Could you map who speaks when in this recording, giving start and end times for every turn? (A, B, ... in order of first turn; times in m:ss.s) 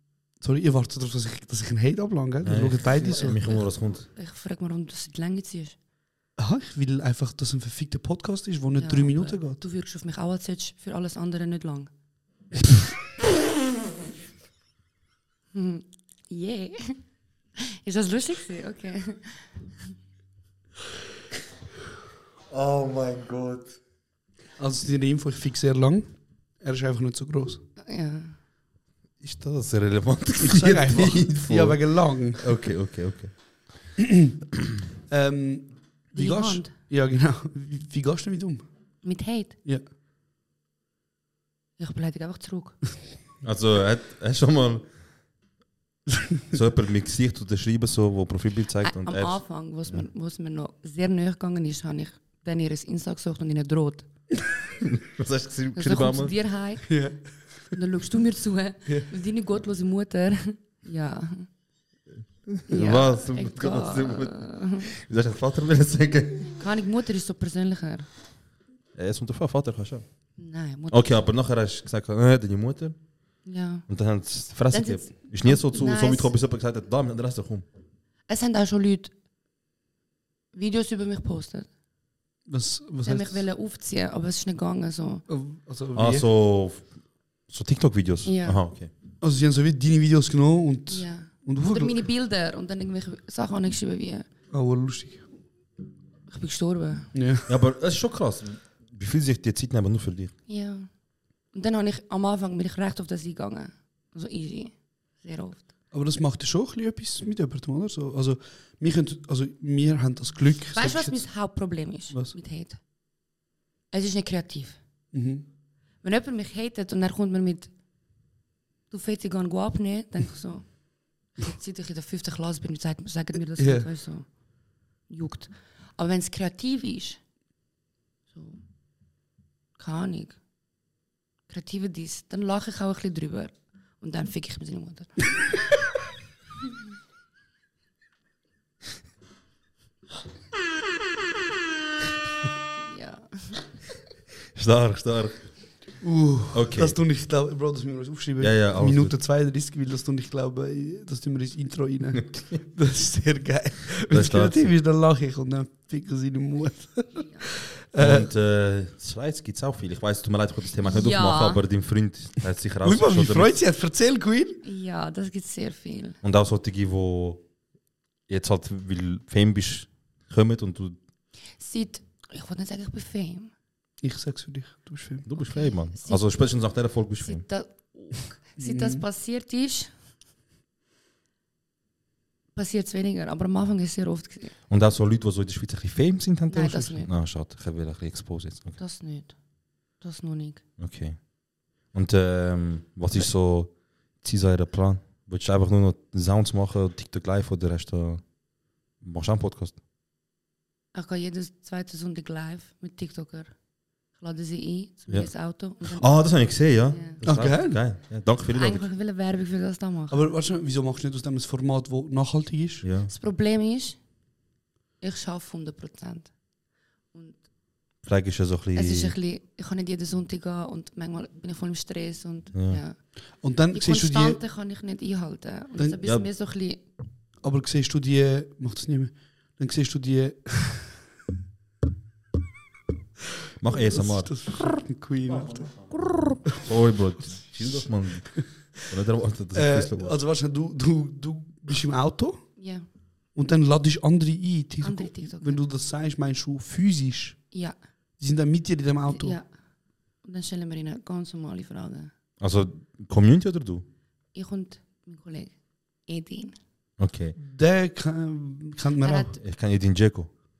0:00.4-0:03.4 A
0:02.4-0:04.1 B
0:03.1-0:05.8 C
0:06.4-0:09.6 A
0:08.8-0:11.9 C
0:15.5-0:17.0 C
0:17.6-0:19.5 C
0:22.5-0:23.7 B
0:24.6-0:27.6 A
0:27.8-0:28.4 C
0:29.2-0:33.3 B
0:30.4-0:32.5 A
0:34.0-0:34.4 A
0:35.1-0:38.6 A
0:36.1-0:36.7 C
0:39.0-0:39.6 C
0:41.8-0:42.8 C
0:43.4-0:44.9 B
0:46.5-0:49.4 B
0:48.8-0:54.1 C
0:54.8-0:56.3 B
0:55.8-0:57.0 C
0:56.9-0:57.2 A
0:57.7-1:01.5 C
1:02.5-1:06.6 B
1:02.7-1:04.9 C
1:06.6-1:08.1 C
1:09.0-1:10.0 B
1:10.4-1:11.2 C
1:10.9-1:13.0 B
1:13.4-1:13.9 C
1:13.9-1:17.6 B
1:14.7-1:16.3 C
1:18.3-1:19.1 C
1:20.5-1:21.7 C
1:22.5-1:23.4 A
1:23.0-1:25.2 C
1:25.3-1:26.3 A
1:26.0-1:26.9 B
1:27.5-1:28.9 B
1:28.2-1:28.6 C
1:29.2-1:32.0 A
1:30.9-1:34.3 C
1:34.5-1:35.2 A
1:36.3-1:37.1 C
1:37.1-1:37.5 A
1:37.5-1:40.3 B
1:40.5-1:40.9 C
1:41.5-1:45.6 C
1:45.9-1:51.2 A
1:50.7-1:52.8 C
1:52.1-1:52.4 A
1:53.9-1:54.8 C
1:55.1-1:55.4 A
1:56.0-1:57.7 C
1:58.9-2:04.3 C
2:03.6-2:03.9 A
2:05.1-2:07.2 C
2:08.3-2:08.6 C
2:09.8-2:10.4 C
2:11.5-2:15.3 C
2:22.8-2:23.6 C
2:24.6-2:25.5 B
2:26.0-2:38.3 A
2:26.5-2:27.0 B
2:28.4-2:29.1 B
2:32.2-2:32.6 B
2:34.1-2:34.7 B
2:37.1-2:37.5 C
2:38.0-2:43.6 B
2:40.8-2:41.6 C
2:42.8-2:44.6 A
2:44.6-2:46.2 C
2:46.2-2:47.4 B
2:48.3-2:51.0 B
2:51.6-2:53.5 C
2:54.0-2:55.3 A
2:55.3-2:57.4 B
2:55.4-2:56.4 C
2:57.2-2:59.9 C
2:58.6-2:59.0 A
3:02.6-3:04.6 C
3:04.7-3:08.8 B
3:06.5-3:07.1 C
3:08.8-3:09.4 C
3:10.0-3:10.6 C
3:10.8-3:11.3 B
3:11.9-3:18.2 B
3:19.0-3:19.8 B
3:20.9-3:23.5 C
3:24.2-3:26.2 C
3:25.1-3:28.9 B
3:26.9-3:27.2 C
3:27.2-3:27.8 A
3:28.5-3:30.2 C
3:30.1-3:32.8 A
3:32.8-3:33.1 B
3:33.1-3:34.0 C
3:35.0-3:36.3 C
3:37.1-3:37.4 C
3:38.0-3:39.1 B
3:38.8-3:43.0 C
3:42.5-3:42.8 B
3:43.4-3:44.4 A
3:43.7-3:46.8 C
3:47.4-3:51.0 A
3:53.6-3:54.4 B
3:53.7-3:55.7 A
3:55.4-3:55.9 B
3:56.4-4:00.2 B
3:59.5-4:02.5 A
4:02.6-4:02.9 C
4:03.4-4:07.4 A
4:04.8-4:05.6 C
4:07.5-4:07.8 C
4:08.2-4:09.4 A
4:09.1-4:09.5 C
4:10.2-4:12.1 C
4:12.4-4:13.9 B
4:14.3-4:15.5 C
4:16.1-4:16.6 C
4:17.0-4:17.4 B
4:17.4-4:19.3 A
4:19.0-4:19.4 C
4:19.4-4:20.3 B